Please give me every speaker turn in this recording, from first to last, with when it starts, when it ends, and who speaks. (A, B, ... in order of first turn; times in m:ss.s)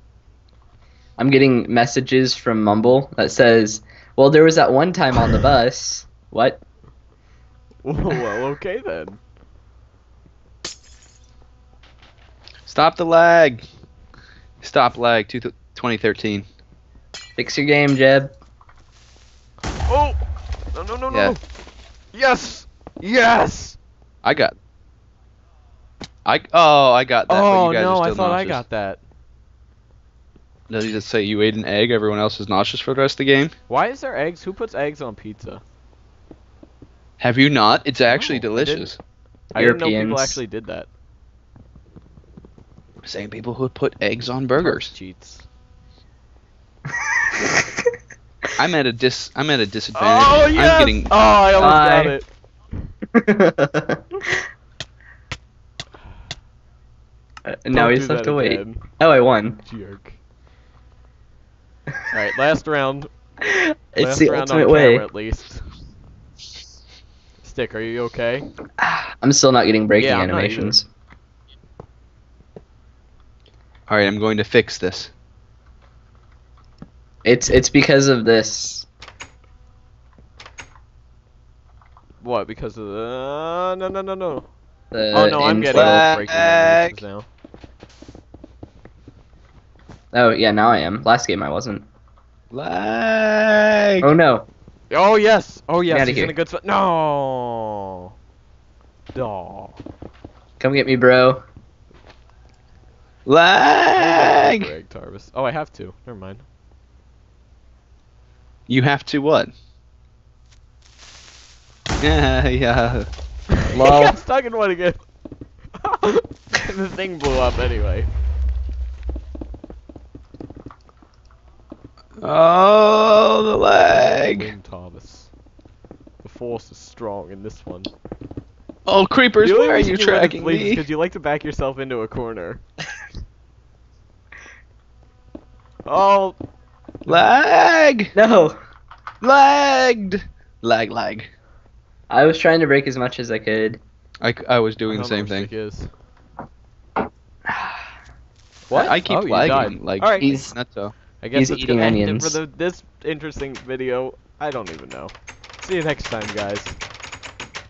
0:01.2-0:06.6 A
0:07.8-0:09.2 B
0:12.7-0:13.6 C
0:14.6-0:16.4 C
0:17.4-0:18.3 A
0:19.8-0:20.2 B
0:20.7-0:21.4 B
0:21.1-0:21.4 C
0:22.1-0:23.8 B
0:24.2-0:24.5 C
0:26.2-0:28.6 C
0:27.3-0:29.0 B
0:30.7-0:33.5 C
0:33.7-0:35.6 B
0:37.2-0:39.0 C
0:38.0-0:38.9 B
0:39.5-0:40.4 A
0:39.5-0:40.9 B
0:43.0-0:44.9 C
0:44.6-0:45.4 B
0:47.0-0:47.8 A
0:48.6-0:51.1 C
0:49.9-0:52.3 B
0:51.6-0:52.1 A
0:53.1-0:54.4 A
0:57.5-0:59.6 A
0:57.7-0:58.9 B
0:59.6-1:00.2 B
1:02.1-1:03.1 B
1:03.4-1:05.0 A
1:04.0-1:05.7 B
1:07.4-1:08.5 B
1:08.8-1:10.9 A
1:10.0-1:10.8 B
1:13.9-1:15.1 C
1:17.2-1:18.8 A
1:22.2-1:24.5 B
1:24.9-1:26.0 A
1:25.1-1:27.3 B
1:25.7-1:27.0 C
1:30.1-1:31.8 A
1:32.5-1:34.1 C
1:34.0-1:34.5 A
1:34.9-1:38.0 B
1:35.9-1:36.3 A
1:39.1-1:39.8 B
1:40.6-1:41.4 A
1:43.2-1:44.7 C
1:43.9-1:46.4 B
1:48.7-1:49.5 C
1:52.0-1:53.1 C
1:53.7-1:54.2 A
1:53.8-1:55.0 B
1:55.8-1:58.1 B
2:02.2-2:04.5 C
2:03.8-2:05.3 B
2:06.2-2:07.9 B
2:08.8-2:10.8 C
2:09.4-2:12.6 B
2:15.8-2:16.4 B
2:17.0-2:18.1 C
2:18.1-2:18.6 A
2:19.2-2:21.3 C
2:22.1-2:23.8 A
2:24.2-2:25.5 C
2:24.9-2:25.9 B
2:28.7-2:30.4 B
2:28.7-2:30.9 C
2:30.2-2:30.5 A
2:31.2-2:36.8 B
2:31.3-2:32.4 A